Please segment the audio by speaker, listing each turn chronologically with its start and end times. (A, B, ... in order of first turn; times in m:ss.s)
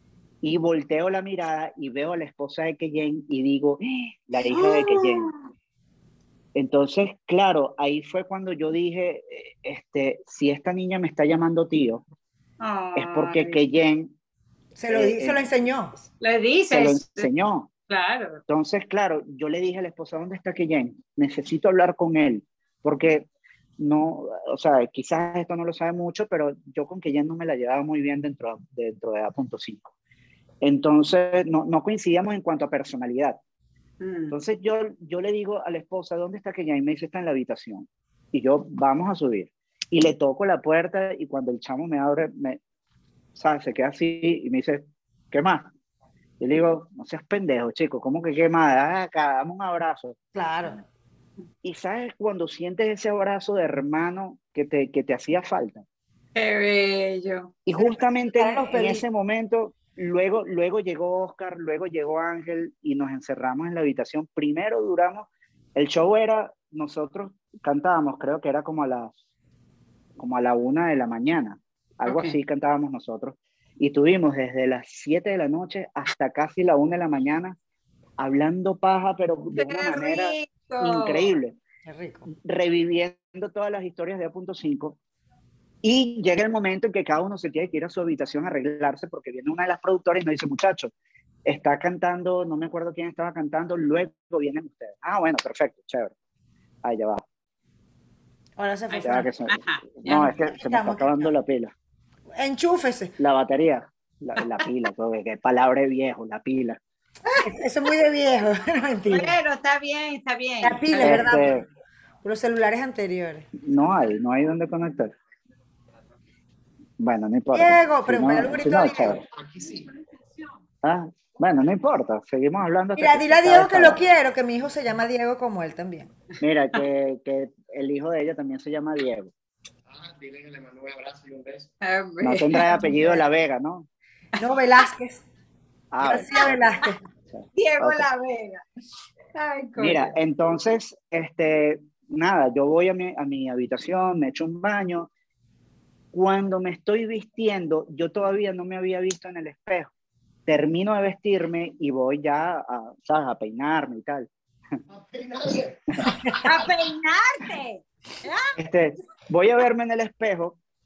0:00.4-0:05.3 A
0:04.4-0:05.4 B
0:06.6-0:12.0 A
0:12.6-0:13.6 B
0:13.0-0:14.1 A
0:14.8-0:16.0 C
0:14.9-0:15.5 A
0:16.2-0:17.3 B
0:16.7-0:17.7 A
0:17.9-0:18.4 B
0:18.5-0:23.3 A
0:23.8-0:29.9 A
0:30.6-0:33.4 A
0:34.0-0:34.3 B
0:34.3-0:42.6 A
0:43.4-0:45.7 A
0:46.4-0:50.2 A
0:50.4-0:50.8 C
0:51.6-0:55.8 A
0:56.4-0:57.6 B
0:57.7-1:09.2 A
0:58.4-0:59.0 C
1:10.2-1:17.6 A
1:12.0-1:12.4 B
1:18.2-1:21.6 A
1:19.6-1:21.3 B
1:21.9-1:22.3 C
1:22.4-1:25.0 A
1:25.8-1:30.9 A
1:31.4-1:36.1 A
1:36.8-1:37.2 A
1:38.6-1:39.3 C
1:38.9-1:40.3 B
1:39.0-1:41.7 A
1:40.1-1:41.3 C
1:42.4-1:43.1 C
1:43.2-1:46.8 A
1:47.4-1:49.4 C
1:49.1-1:51.2 B
1:50.6-1:51.6 C
1:51.0-1:51.6 A
1:52.2-1:53.5 C
1:53.6-1:55.1 A
1:57.0-1:59.2 A
1:57.5-1:59.2 C
1:59.4-1:59.9 D
2:00.8-2:04.0 A
2:03.0-2:06.1 C
2:06.4-2:09.3 A
2:09.9-2:11.7 D
2:11.8-2:12.8 B
2:12.2-2:13.9 A
2:12.6-2:13.2 C
2:14.4-2:15.2 C
2:15.9-2:16.3 A
2:16.0-2:17.0 C
2:16.3-2:16.9 B
2:17.3-2:18.1 A
2:17.6-2:18.6 B
2:19.4-2:20.1 B
2:19.8-2:25.1 A
2:26.1-2:29.9 A
2:30.5-2:34.3 A
2:34.9-2:35.9 D
2:36.4-2:38.6 B
2:38.6-2:40.6 A